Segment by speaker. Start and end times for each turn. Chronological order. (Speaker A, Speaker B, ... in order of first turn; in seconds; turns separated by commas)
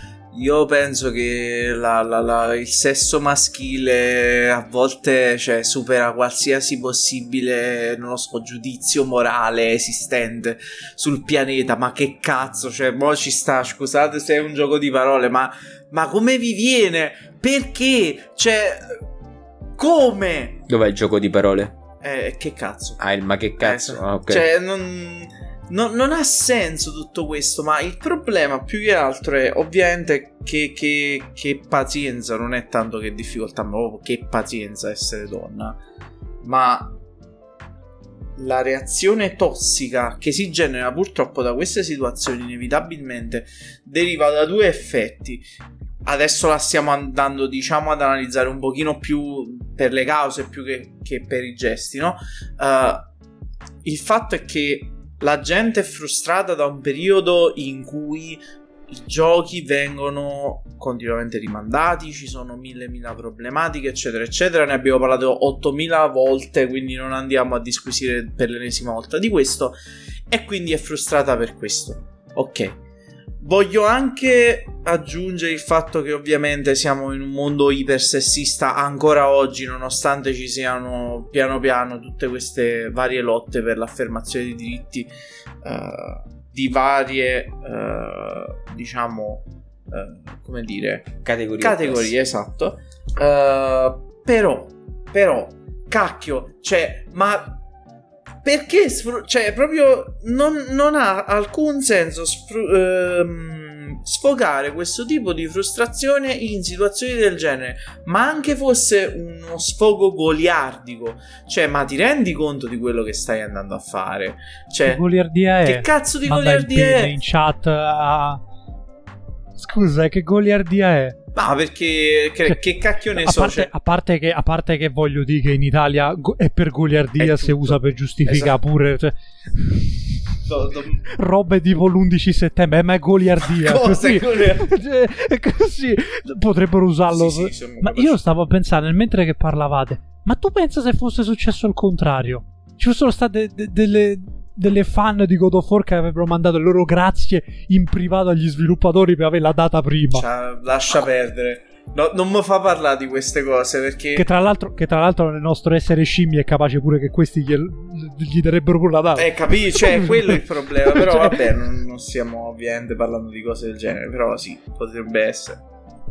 Speaker A: 0.3-19.1, Speaker A: 19.8-20.6, Speaker B: 20.7-21.8, Speaker A: 22.0-23.0, Speaker B: 23.0-24.5, Speaker A: 23.6-35.8, Speaker A: 36.4-37.0, Speaker A: 38.4-45.5, Speaker A: 46.0-53.1, Speaker A: 53.8-69.8, Speaker A: 70.3-72.8, Speaker A: 73.4-85.1, Speaker A: 85.6-97.6, Speaker B: 91.2-92.2, Speaker A: 98.4-115.0, Speaker C: 114.9-118.4, Speaker A: 115.6-117.1, Speaker C: 119.6-121.2, Speaker A: 121.3-123.7, Speaker C: 123.1-130.3, Speaker A: 127.2-128.6, Speaker A: 130.4-131.0, Speaker C: 131.1-150.2, Speaker A: 133.4-134.7, Speaker A: 137.1-138.2, Speaker A: 150.1-154.2, Speaker C: 154.2-161.3, Speaker A: 159.2-165.6